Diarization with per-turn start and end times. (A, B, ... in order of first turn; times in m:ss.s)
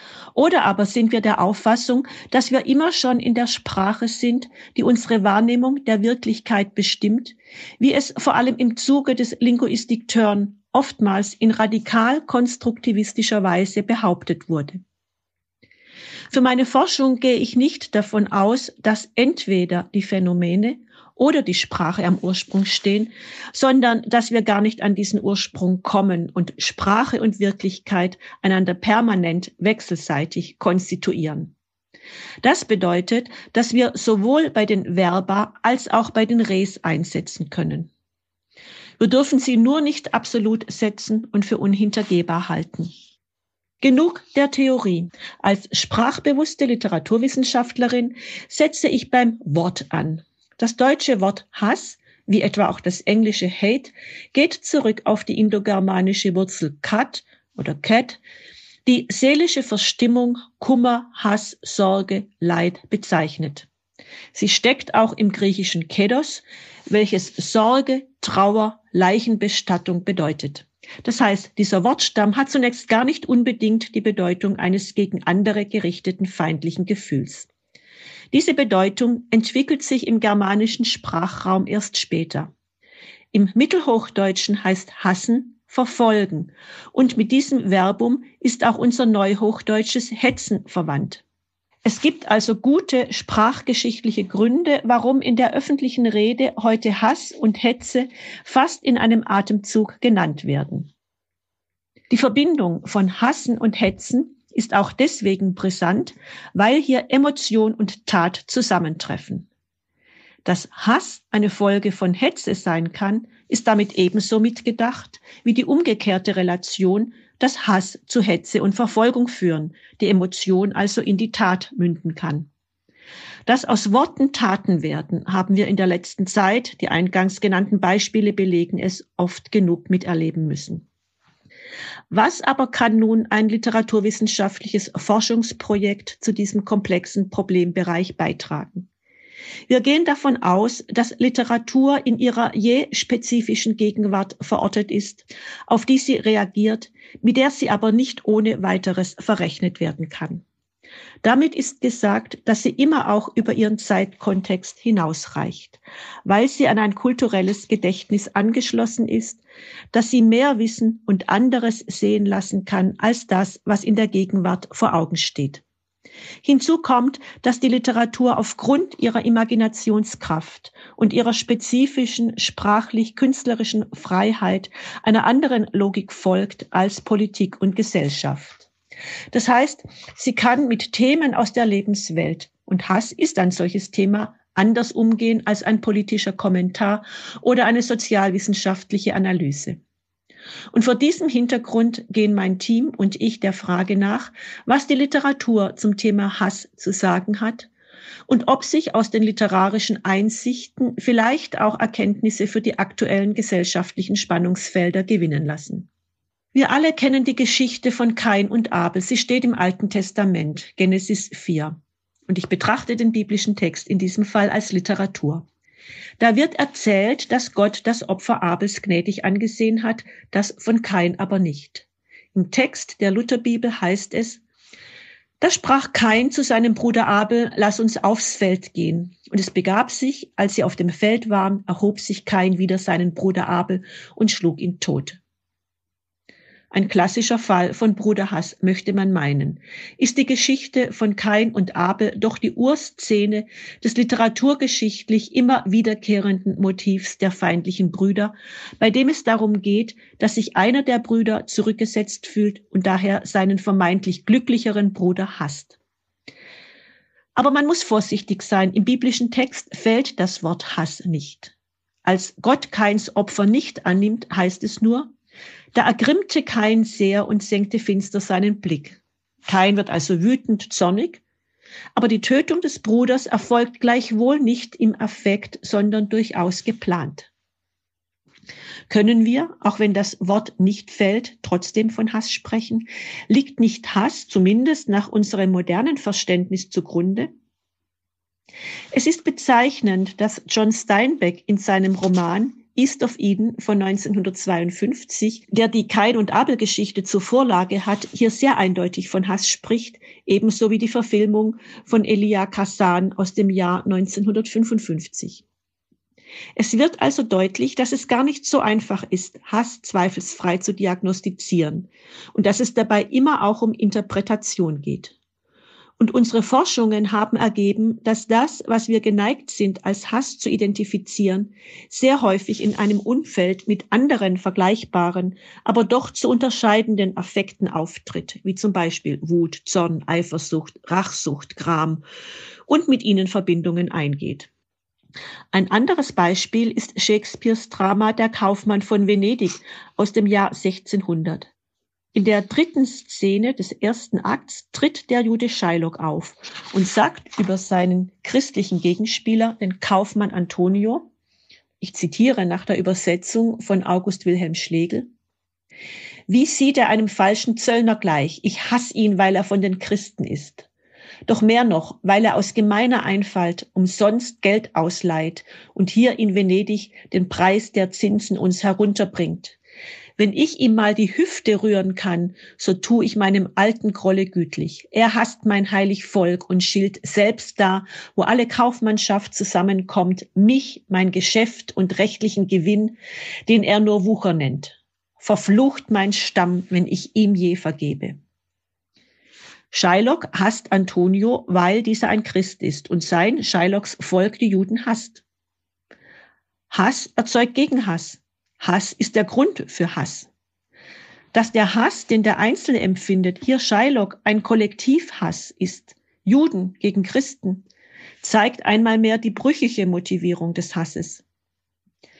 0:00.3-0:14.8 A
0:16.3-0:31.5 A
0:32.4-0:37.9 A
0:39.0-0:42.9 A
0:43.8-0:58.2 A
0:58.8-1:03.7 A
1:04.3-1:17.5 A
1:18.3-1:22.5 A
1:23.3-1:31.2 A
1:31.8-1:40.9 A
1:42.1-1:49.5 A
1:50.4-2:02.5 A
2:03.4-2:10.8 A
2:12.1-2:18.9 A
2:19.7-2:30.4 A
2:31.2-2:45.6 A
2:46.4-2:58.7 A
2:59.3-3:09.8 A
3:10.7-3:17.7 A
3:18.3-3:25.9 A
3:26.5-3:35.5 A
3:36.2-3:44.4 A
3:45.4-3:55.2 A
3:56.7-4:15.8 A
4:17.3-4:21.5 A
4:22.0-4:25.1 A
4:25.7-4:31.2 A
4:31.9-4:37.3 A
4:38.9-4:47.3 A
4:48.9-5:05.4 A
5:06.6-5:15.2 A
5:16.0-5:32.0 A
5:32.7-5:34.5 A
5:35.5-5:41.5 A
5:42.1-5:51.1 A
5:51.8-5:55.1 A
5:56.3-6:00.7 A
6:01.3-6:09.6 A
6:10.2-6:28.2 A
6:29.7-6:35.2 A
6:36.7-6:40.3 A
6:41.3-6:47.6 A
6:48.2-6:51.2 A